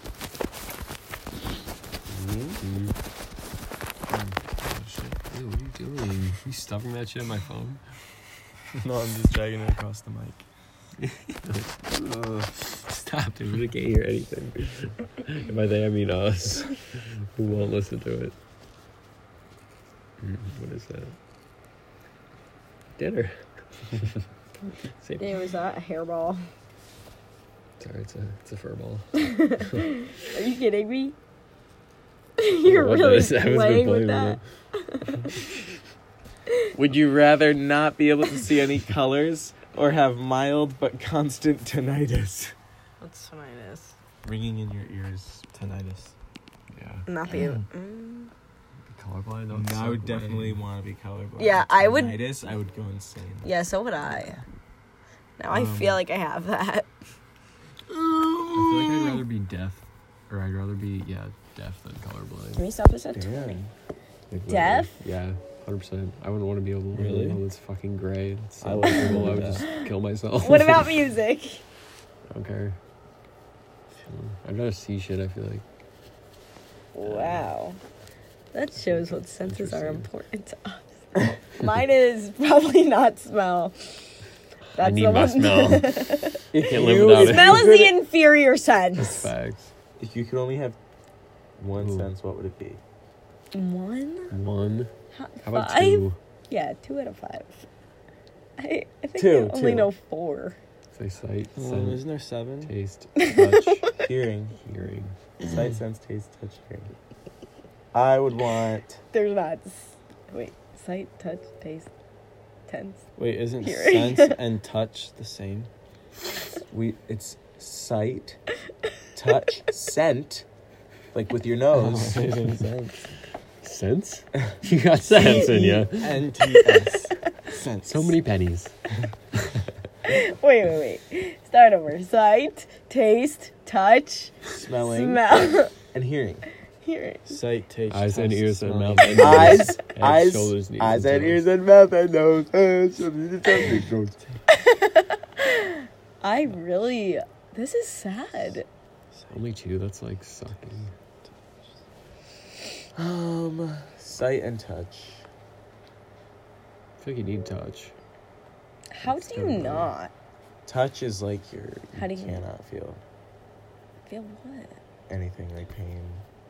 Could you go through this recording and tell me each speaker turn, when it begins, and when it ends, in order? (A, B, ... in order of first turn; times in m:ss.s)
0:02.1-0:02.6 A
0:02.6-0:03.0 B
0:04.1-0:05.2 A
0:05.3-0:07.8 B
0:08.8-0:10.4 C
0:11.0-0:11.7 B
0:11.9-0:12.5 A
0:12.7-0:18.3 B
0:20.2-0:21.1 B
0:23.0-0:23.4 B
0:25.0-0:25.4 B
0:25.2-0:26.4 D
0:27.8-0:29.1 B
0:29.2-0:31.2 D
0:32.4-0:35.2 D
0:32.6-0:34.4 B
0:36.8-0:42.5 A
0:43.0-0:44.0 D
0:44.2-0:46.1 A
0:45.6-0:46.1 C
0:46.8-0:47.0 B
0:47.1-0:48.3 D
0:48.9-0:50.6 B
0:49.5-0:53.6 A
0:51.4-0:52.2 D
0:53.4-0:54.4 D
0:55.4-0:56.9 D
0:55.5-0:56.0 A
0:57.9-0:59.2 A
0:58.5-1:02.6 B
1:02.6-1:03.6 D
1:03.1-1:03.7 A
1:04.3-1:10.9 B
1:04.5-1:05.0 D
1:07.0-1:07.4 C
1:08.6-1:09.6 C
1:08.7-1:09.6 A
1:10.4-1:11.6 D
1:12.3-1:12.8 B
1:14.1-1:15.6 B
1:17.0-1:17.8 D
1:17.0-1:17.5 B
1:18.5-1:23.9 D
1:18.9-1:20.1 B
1:24.8-1:29.3 D
1:24.8-1:26.0 B
1:26.5-1:27.9 A
1:26.6-1:27.7 B
1:29.0-1:29.7 B
1:30.0-1:30.8 A
1:31.6-1:32.8 A
1:31.8-1:32.1 B
1:33.5-1:34.4 D
1:34.3-1:34.9 B
1:35.1-1:37.6 D
1:35.4-1:36.2 B
1:38.6-1:40.6 D
1:39.2-1:39.9 A
1:40.9-1:43.9 B
1:41.6-1:42.5 C
1:41.7-1:42.7 A
1:43.2-1:43.9 D
1:44.0-1:44.6 A
1:44.6-1:45.2 B
1:45.4-1:46.9 A
1:47.9-1:49.0 A
1:49.1-1:51.9 D
1:52.7-1:53.1 D
1:53.2-1:55.7 C
1:53.6-1:54.4 D
1:56.7-1:58.4 A
1:59.1-2:00.5 A
2:01.1-2:02.3 A
2:01.8-2:03.0 C
2:03.6-2:06.2 B
2:05.1-2:05.9 D
2:06.0-2:08.2 A
2:06.5-2:06.9 D
2:07.9-2:08.7 B
2:10.1-2:15.7 D
2:14.5-2:15.2 A
2:15.9-2:16.5 A
2:16.8-2:17.4 D
2:17.3-2:19.7 C
2:17.9-2:21.4 B
2:19.2-2:24.4 A
2:24.5-2:28.7 D
2:29.3-2:30.9 B
2:33.0-2:35.2 A
2:37.0-2:37.9 B
2:38.9-2:40.1 D
2:39.0-2:39.9 B
2:40.6-2:43.0 A
2:42.0-2:42.4 D
2:44.1-2:44.8 D
2:45.1-2:46.2 A